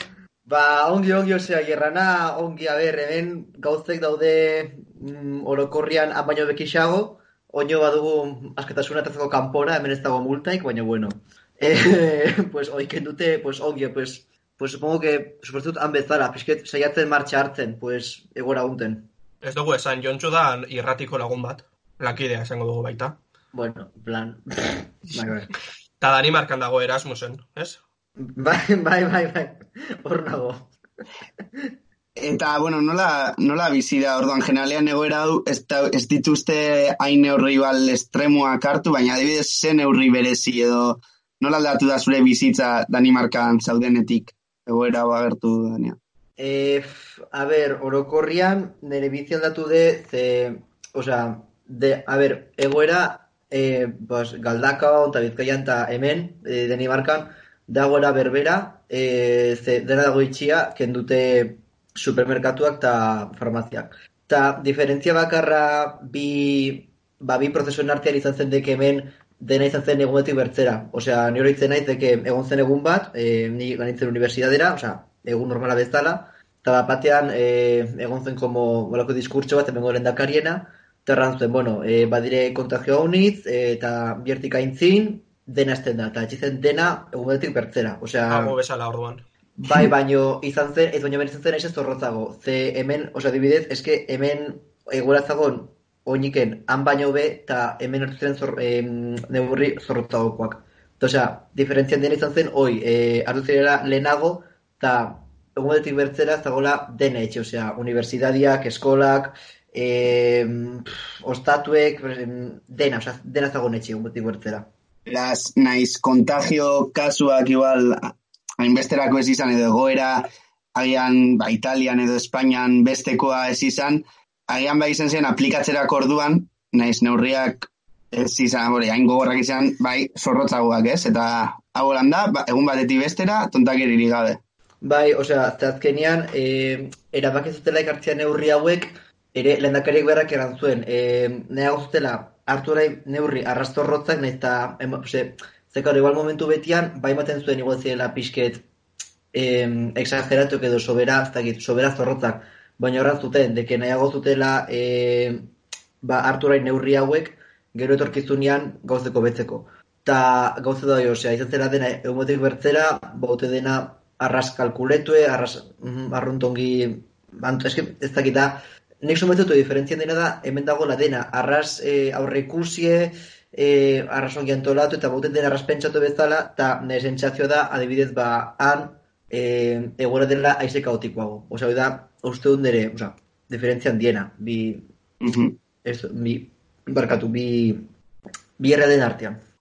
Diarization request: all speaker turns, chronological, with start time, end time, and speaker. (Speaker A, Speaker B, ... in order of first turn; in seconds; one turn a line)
Speaker A: 0.5-19.1
Speaker B: 19.4-23.2
Speaker A: 23.5-25.5
Speaker B: 26.0-27.8
Speaker A: 28.2-30.7
Speaker C: 32.2-46.0
Speaker A: 46.4-88.6
Speaker B: 88.3-89.2
Speaker A: 89.6-114.7
Speaker C: 115.1-134.4
Speaker A: 134.8-148.7
Speaker A: 149.3-184.9
Speaker C: 185.2-185.6
Speaker A: 185.8-187.9
Speaker A: 188.6-189.4